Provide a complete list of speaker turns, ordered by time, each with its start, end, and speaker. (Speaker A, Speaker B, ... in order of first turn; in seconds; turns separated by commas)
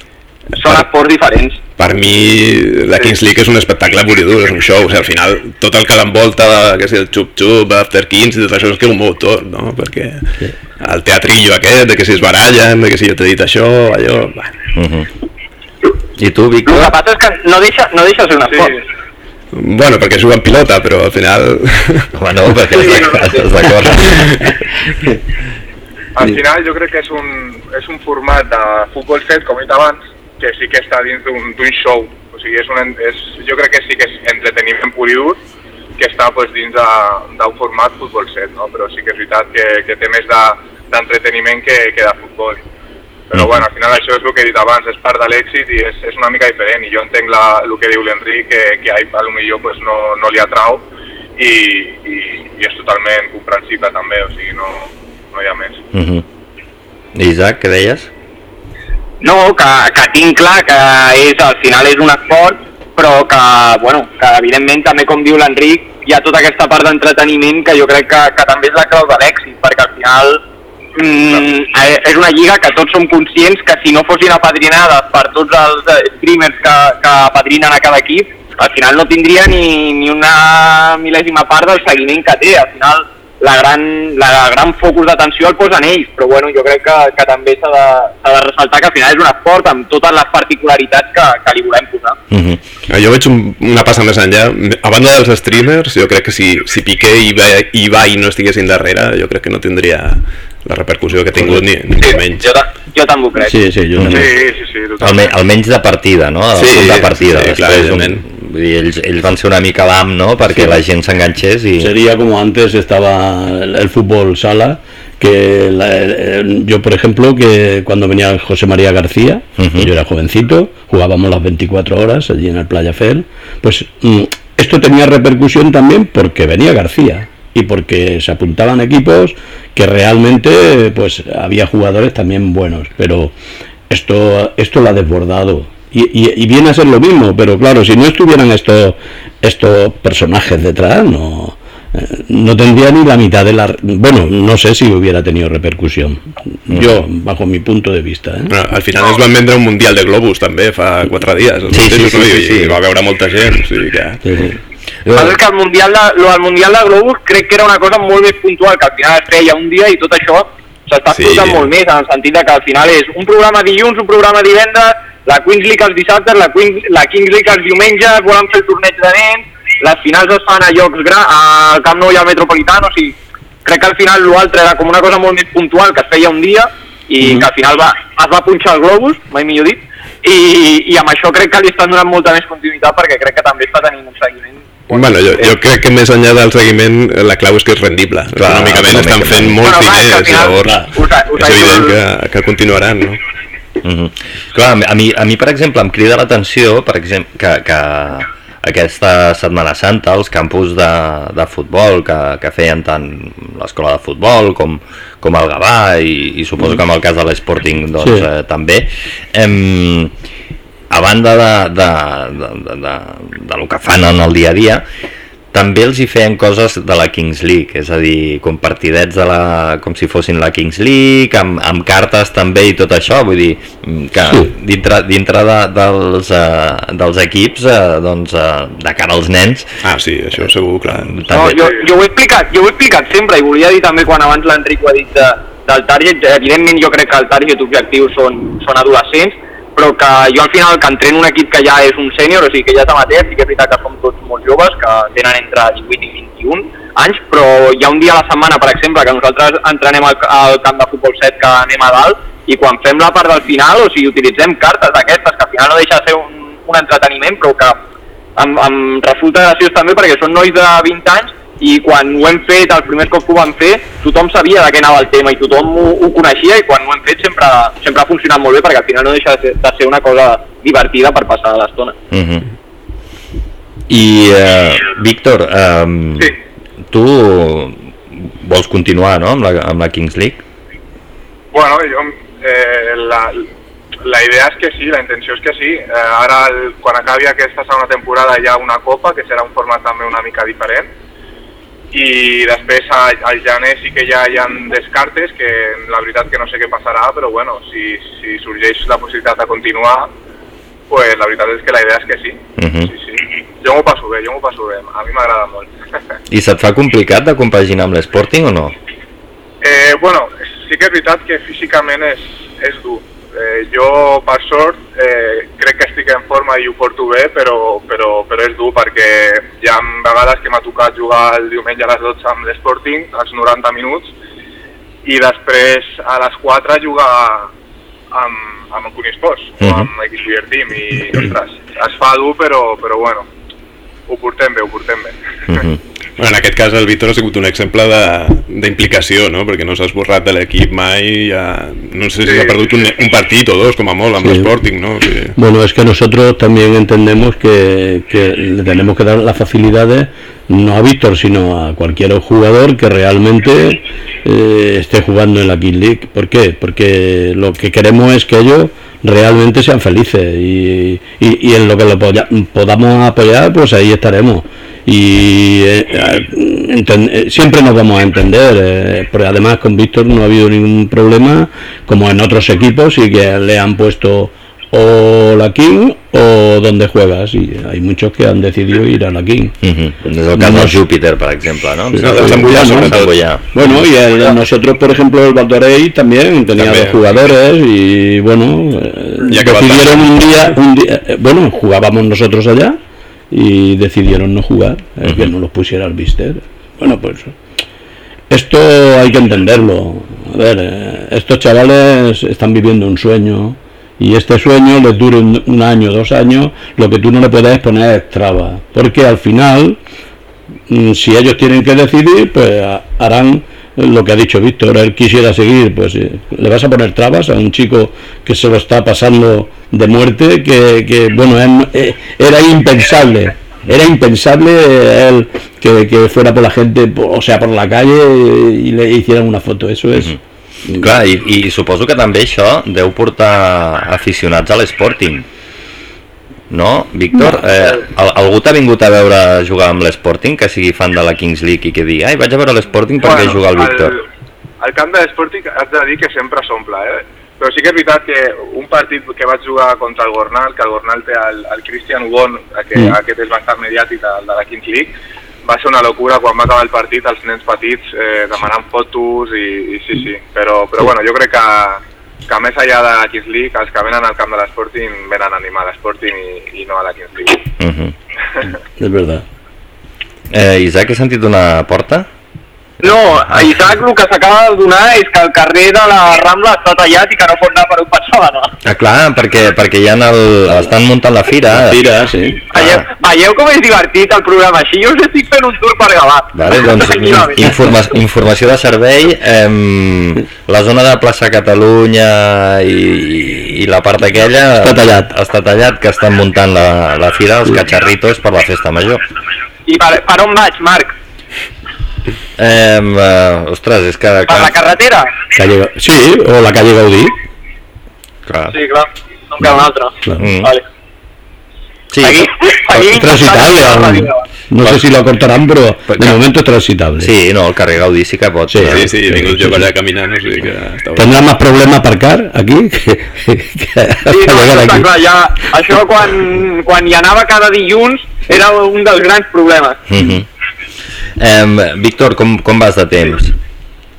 Speaker A: 0.6-1.6, Speaker B: 1.8-14.5, Speaker C: 14.8-15.1, Speaker C: 16.2-16.9, Speaker A: 16.7-18.8, Speaker D: 18.5-18.8, Speaker B: 19.5-22.1, Speaker C: 22.1-24.5, Speaker A: 22.8-23.4, Speaker D: 26.1-35.4, Speaker D: 36.0-42.6, Speaker D: 43.3-50.8, Speaker D: 51.4-55.8, Speaker C: 55.9-56.2, Speaker C: 57.1-58.1, Speaker A: 59.2-70.4, Speaker A: 71.0-92.2, Speaker C: 92.3-92.6, Speaker B: 92.9-102.5, Speaker A: 102.0-103.6, Speaker E: 103.5-104.3, Speaker C: 104.0-104.3, Speaker D: 104.1-105.3, Speaker C: 105.0-111.9, Speaker B: 106.5-108.2, Speaker E: 111.8-133.3, Speaker C: 119.6-119.9, Speaker E: 133.9-148.5, Speaker C: 146.7-147.0, Speaker B: 148.5-154.2, Speaker C: 151.7-152.8, Speaker E: 154.3-154.5, Speaker C: 155.1-155.4, Speaker A: 155.1-185.5, Speaker B: 161.1-161.7, Speaker B: 184.9-193.2, Speaker C: 188.4-189.6, Speaker A: 189.6-191.9, Speaker C: 193.8-210.1, Speaker E: 208.0-208.3, Speaker C: 210.9-214.8, Speaker C: 215.5-229.7, Speaker B: 229.8-231.1, Speaker C: 230.9-231.7, Speaker A: 231.3-257.8, Speaker A: 258.4-271.9, Speaker C: 272.1-272.5, Speaker C: 273.9-276.4, Speaker C: 276.9-280.4, Speaker D: 281.5-283.5, Speaker D: 284.1-290.9, Speaker D: 291.9-300.1, Speaker D: 300.9-305.7, Speaker C: 302.6-302.9, Speaker C: 306.3-308.8, Speaker D: 309.6-324.1, Speaker D: 325.1-327.5, Speaker D: 328.1-333.3, Speaker C: 329.6-329.9, Speaker D: 334.1-335.6, Speaker C: 335.5-335.8, Speaker B: 336.2-345.4, Speaker D: 342.2-342.6, Speaker E: 344.2-344.5, Speaker E: 345.4-379.6, Speaker C: 379.6-383.5, Speaker E: 380.3-380.8, Speaker E: 381.9-392.8, Speaker B: 382.0-383.1, Speaker B: 386.6-387.1, Speaker B: 389.3-390.3, Speaker E: 393.3-397.4, Speaker E: 398.3-409.8, Speaker E: 410.7-430.2, Speaker C: 430.8-435.3, Speaker C: 436.5-444.0, Speaker D: 443.0-444.0, Speaker D: 444.6-454.9, Speaker D: 455.5-467.5, Speaker C: 467.6-467.9, Speaker E: 468.8-469.2, Speaker C: 470.3-472.1, Speaker A: 472.8-478.6, Speaker C: 472.9-473.5, Speaker C: 478.6-481.8, Speaker E: 481.5-482.5, Speaker A: 482.5-487.5, Speaker C: 482.5-482.9, Speaker C: 486.3-499.0, Speaker E: 494.6-495.1, Speaker A: 499.7-500.9, Speaker C: 502.4-504.8, Speaker A: 504.3-505.1, Speaker E: 505.4-507.1, Speaker C: 508.3-508.6, Speaker A: 508.5-510.6, Speaker C: 510.2-510.5, Speaker C: 511.9-512.9, Speaker A: 512.0-514.2, Speaker E: 513.0-517.1, Speaker C: 517.0-518.9, Speaker E: 518.5-519.6, Speaker B: 518.7-521.2, Speaker E: 521.0-524.9, Speaker A: 524.1-529.8, Speaker C: 529.9-530.3, Speaker C: 531.2-533.4